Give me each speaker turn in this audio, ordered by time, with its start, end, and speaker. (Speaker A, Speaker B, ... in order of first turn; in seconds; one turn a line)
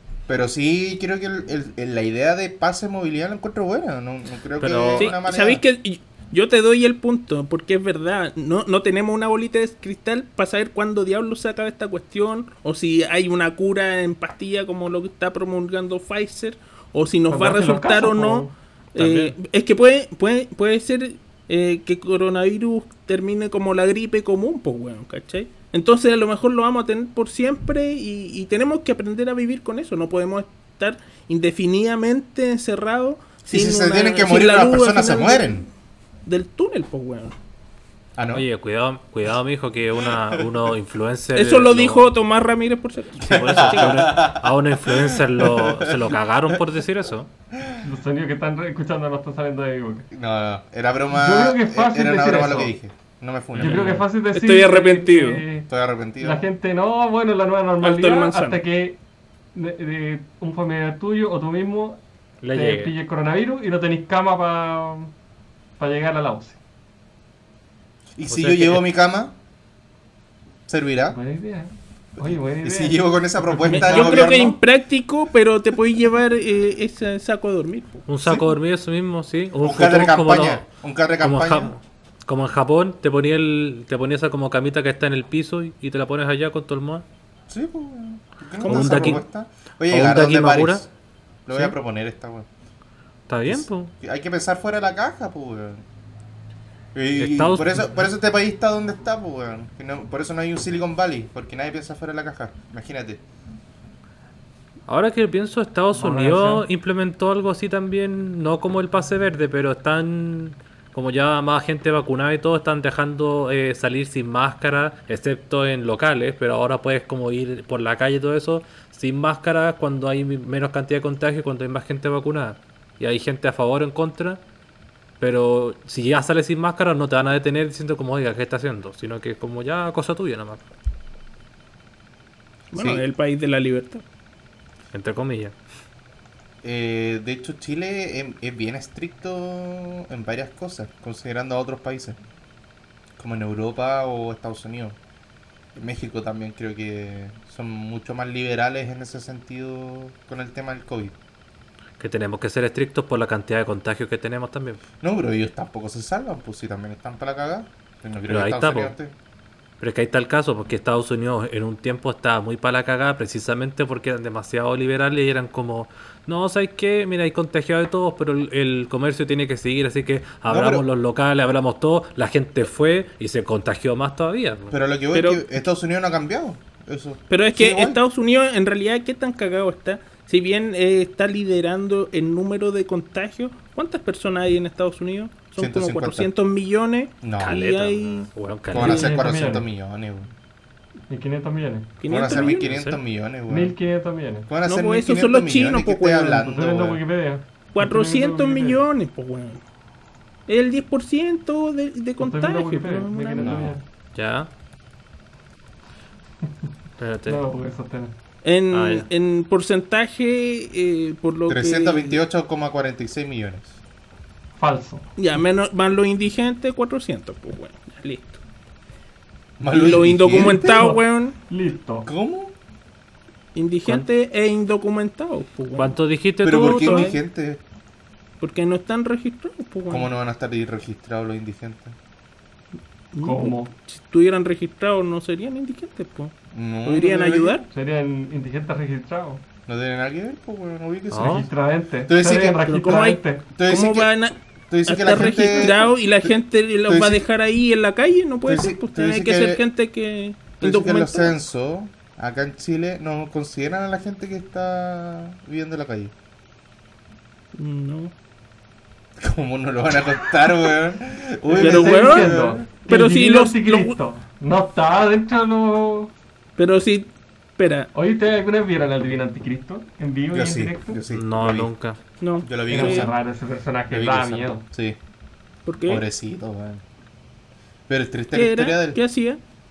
Speaker A: 0.3-5.6
Speaker B: 4.6-5.2
Speaker C: 5.0-35.6
Speaker D: 17.3-19.3
Speaker A: 33.5-35.7
Speaker C: 36.3-37.4
Speaker A: 38.2-38.5
Speaker B: 38.3-42.1
Speaker A: 40.0-40.5
Speaker C: 41.3-44.0
Speaker B: 43.2-47.3
Speaker A: 43.2-46.1
Speaker A: 47.5-47.8
Speaker D: 47.8-50.1
Speaker A: 50.1-54.0
Speaker D: 51.1-52.7
Speaker B: 53.5-54.0
Speaker D: 53.5-59.0
Speaker C: 54.3-55.4
Speaker A: 55.7-56.5
Speaker C: 57.8-58.6
Speaker D: 59.5-65.1
Speaker B: 62.4-62.9
Speaker D: 65.8-66.6
Speaker A: 68.2-69.3
Speaker B: 68.3-68.8
Speaker A: 70.7-71.2
Speaker D: 71.1-74.3
Speaker A: 72.2-74.6
Speaker C: 73.7-78.0
Speaker B: 78.1-80.7
Speaker A: 78.2-78.5
Speaker A: 79.6-81.7
Speaker B: 81.2-87.0
Speaker A: 87.5-90.9
Speaker C: 88.6-89.2
Speaker B: 88.7-89.2
Speaker B: 89.9-90.8
Speaker A: 91.5-92.5
Speaker B: 93.3-93.9
Speaker A: 93.5-95.8
Speaker A: 96.9-103.2
Speaker B: 97.2-97.9
Speaker B: 104.9-124.4
Speaker D: 105.9-106.7
Speaker B: 125.2-130.6
Speaker C: 132.7-134.0
Speaker A: 132.7-133.0
Speaker B: 134.9-135.6
Speaker A: 136.6-142.2
Speaker A: 143.2-145.0
Speaker A: 145.7-151.1
Speaker B: 152.0-154.8
Speaker A: 155.0-159.1
Speaker B: 158.3-158.9
Speaker B: 159.8-174.7
Speaker A: 170.5-170.9
Speaker A: 174.7-178.0
Speaker C: 175.1-175.6
Speaker C: 177.3-188.3
Speaker A: 185.6-186.3
Speaker A: 187.2-187.6
Speaker B: 187.4-189.1
Speaker A: 188.7-190.3
Speaker D: 188.7-189.7
Speaker D: 191.1-192.0
Speaker C: 192.0-192.7
Speaker A: 192.1-193.8
Speaker B: 192.3-193.0
Speaker D: 193.5-194.5
Speaker A: 194.5-197.0
Speaker C: 194.6-196.4
Speaker D: 196.3-198.8
Speaker C: 197.7-199.6
Speaker C: 200.5-203.7
Speaker D: 202.2-203.8
Speaker A: 203.4-203.8
Speaker B: 204.1-204.5
Speaker B: 207.0-207.4
Speaker D: 207.3-208.1
Speaker C: 208.4-212.2
Speaker B: 208.7-209.1
Speaker A: 211.5-213.8
Speaker D: 214.6-215.1
Speaker C: 215.2-218.4
Speaker A: 219.6-220.9
Speaker C: 219.7-221.4
Speaker D: 220.3-222.1
Speaker A: 222.1-222.5
Speaker C: 223.6-226.0
Speaker B: 225.8-227.1
Speaker A: 226.4-227.6
Speaker C: 226.5-227.2
Speaker C: 228.4-230.1
Speaker A: 229.9-231.9
Speaker C: 233.1-237.6
Speaker D: 233.2-233.7
Speaker A: 236.5-237.7
Speaker D: 237.7-239.4
Speaker A: 239.7-241.5
Speaker B: 241.1-241.4
Speaker D: 241.1-243.4
Speaker A: 242.1-242.6
Speaker C: 242.6-251.3
Speaker A: 243.6-244.1
Speaker A: 244.7-246.3
Speaker A: 246.8-247.2
Speaker A: 248.4-249.6
Speaker A: 250.6-256.1
Speaker C: 257.5-258.1
Speaker A: 259.2-262.6
Speaker D: 261.5-266.1
Speaker C: 261.5-264.0
Speaker C: 266.6-267.9
Speaker D: 267.9-271.0
Speaker A: 270.3-271.7
Speaker B: 271.1-272.0
Speaker C: 272.2-273.1
Speaker A: 272.4-273.1
Speaker D: 272.7-274.6
Speaker A: 273.9-275.0
Speaker C: 275.6-276.1
Speaker A: 275.9-276.8
Speaker A: 277.9-279.0
Speaker C: 278.3-279.4